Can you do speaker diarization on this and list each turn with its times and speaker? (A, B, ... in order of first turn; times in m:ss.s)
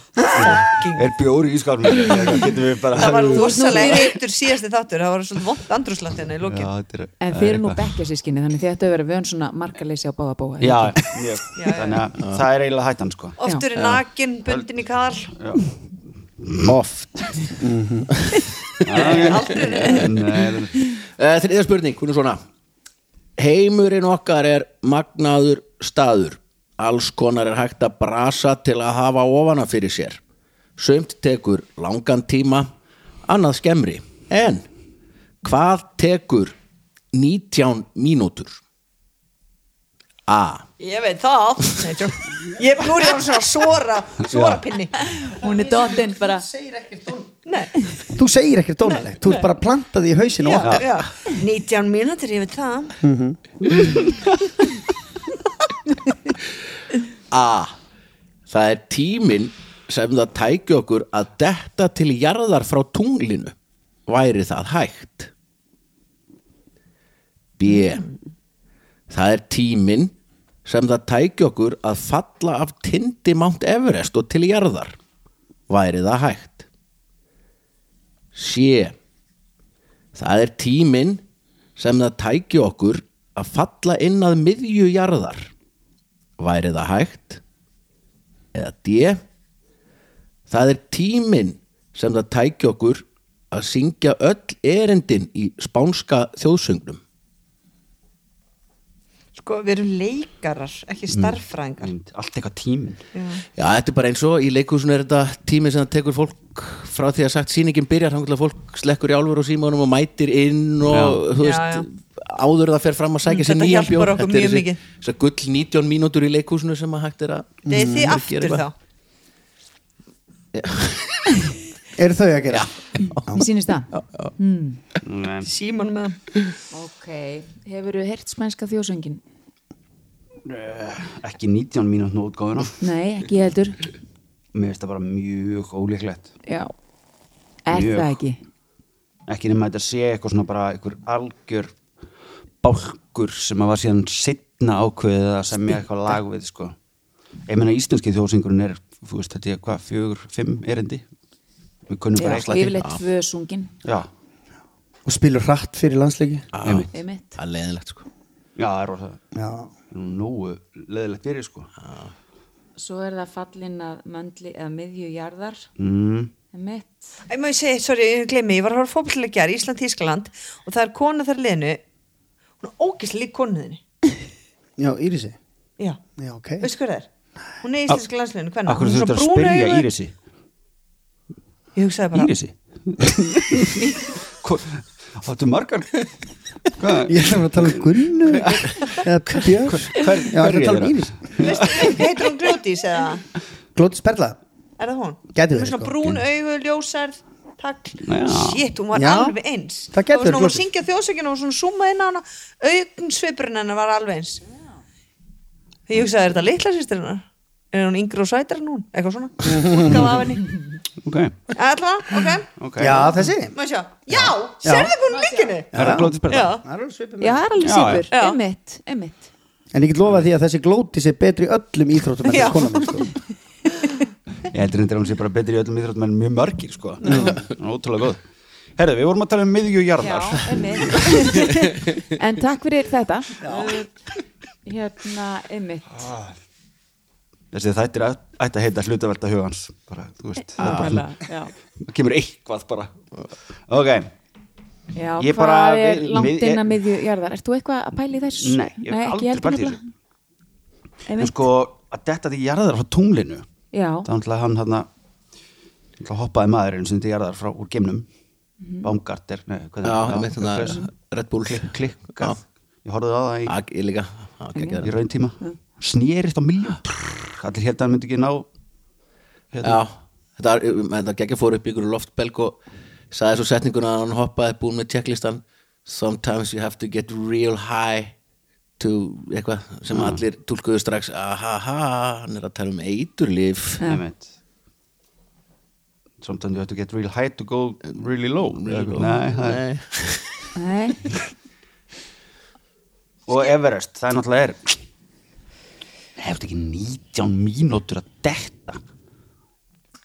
0:00.2-0:01.1 A
0:00.3-0:04.0 B
0:02.0-0:02.3 A
0:02.9-0:06.7 A
0:03.3-0:04.2 C
0:06.4-0:07.9 B
0:07.2-0:11.0 C
0:10.6-0:13.4 B
0:11.5-0:12.0 A
0:13.4-0:15.3 A
0:15.4-0:15.7 B
0:16.4-0:17.2 B
0:16.6-0:17.1 D
0:17.6-0:18.1 E
0:18.2-0:22.4 D
0:18.8-0:20.8 B
0:18.9-0:20.1 A
0:23.4-0:30.2 D
0:30.8-0:32.7 D
0:33.2-0:34.7 D
0:35.4-0:36.5 D
0:37.1-0:38.6 D
0:40.3-0:40.6 D
0:40.8-0:45.0 A
0:44.3-0:44.6 B
0:45.0-0:46.5 C
0:45.4-0:47.4 E
0:47.4-0:47.7 A
0:48.1-0:50.9 E
0:48.9-0:49.4 A
0:50.4-0:52.9 A
0:50.6-0:51.0 B
0:53.0-0:53.4 E
0:53.7-0:54.3 B
0:57.3-0:57.8 D
0:58.5-1:03.5 D
1:04.1-1:05.3 D
1:07.6-1:08.0 D
1:09.1-1:10.1 D
1:10.6-1:15.0 D
1:15.7-1:16.6 D
1:18.3-1:19.0 D
1:20.1-1:21.2 D
1:21.8-1:25.5 D
1:26.4-1:27.4 D
1:28.5-1:29.2 D
1:30.5-1:37.0 D
1:39.3-1:41.9 A
1:41.1-1:43.0 B
1:43.1-1:43.4 A
1:43.5-1:58.6 D
1:50.8-1:51.2 B
1:51.4-1:51.8 A
1:53.2-1:54.8 A
1:57.6-1:58.1 E
1:57.7-1:58.7 A
2:00.5-2:01.5 D
2:02.0-2:03.4 E
2:02.5-2:03.3 D
2:03.3-2:04.8 C
2:03.9-2:04.3 D
2:05.0-2:05.5 B
2:05.4-2:06.2 A
2:06.7-2:09.2 C
2:10.4-2:12.7 B
2:12.8-2:13.9 C
2:14.5-2:16.3 B
2:16.4-2:16.7 C
2:17.6-2:18.4 C
2:17.7-2:18.2 B
2:19.3-2:21.8 B
2:22.6-2:26.7 B
2:27.5-2:31.0 B
2:31.9-2:32.8 B
2:32.1-2:33.7 C
2:32.3-2:33.0 D
2:35.0-2:36.5 E
2:36.5-2:38.0 D
2:36.6-2:36.9 B
2:36.9-2:37.4 C
2:38.6-2:39.2 B
2:39.3-2:39.7 E
2:39.9-2:41.7 B
2:41.8-2:42.1 D
2:42.8-2:45.7 C
2:45.8-2:46.3 B
2:46.5-2:47.2 C
2:47.3-2:51.8 A
2:52.6-2:53.8 A
2:54.8-2:55.4 E
2:56.2-2:56.7 E
2:56.6-2:57.1 A
2:57.6-2:59.9 A
2:58.6-3:00.1 B
3:01.7-3:02.3 A
3:02.1-3:06.0 B
3:06.8-3:12.0 B
3:07.0-3:11.3 E
3:11.4-3:13.2 A
3:13.7-3:14.4 E
3:14.8-3:24.4 A
3:15.3-3:16.1 E
3:18.0-3:18.6 B
3:18.9-3:19.4 E
3:19.9-3:20.6 E
3:25.9-3:30.5 A
3:29.4-3:30.1 E
3:31.0-3:31.4 B
3:31.5-3:32.5 A
3:32.6-3:33.2 B
3:32.8-3:33.6 E
3:33.5-3:36.6 A
3:34.1-3:35.0 E
3:35.1-3:35.5 C
3:35.7-3:37.5 E
3:35.7-3:36.6 B
3:37.2-3:39.3 C
3:37.6-3:38.1 B
3:38.1-3:38.4 A
3:39.7-3:43.1 E
3:42.2-3:43.0 A
3:44.5-3:48.2 B
3:47.0-3:47.4 E
3:48.8-3:51.1 B
3:50.0-3:53.9 C
3:53.4-3:53.8 E
3:54.6-3:56.0 C
3:57.5-4:01.1 B
4:00.4-4:01.5 C
4:00.6-4:01.0 D
4:01.8-4:02.9 B
4:03.7-4:04.1 B
4:04.9-4:09.8 C
4:05.2-4:06.8 B
4:08.4-4:09.8 B
4:11.0-4:11.4 C
4:11.2-4:13.4 B
4:13.7-4:14.1 C
4:14.0-4:14.9 B
4:16.0-4:18.1 B
4:18.6-4:18.9 C
4:18.8-4:20.9 B
4:19.8-4:22.4 D
4:21.5-4:23.5 B
4:23.5-4:24.9 D
4:24.5-4:24.8 C
4:24.8-4:28.5 B
4:29.5-4:29.8 B
4:29.6-4:38.1 D
4:38.8-4:43.8 D
4:39.9-4:40.2 B
4:43.8-4:44.3 B
4:46.2-4:49.6 B
4:47.9-4:50.4 D
4:50.5-4:51.0 C
4:53.3-4:54.8 B
4:56.2-4:58.8 B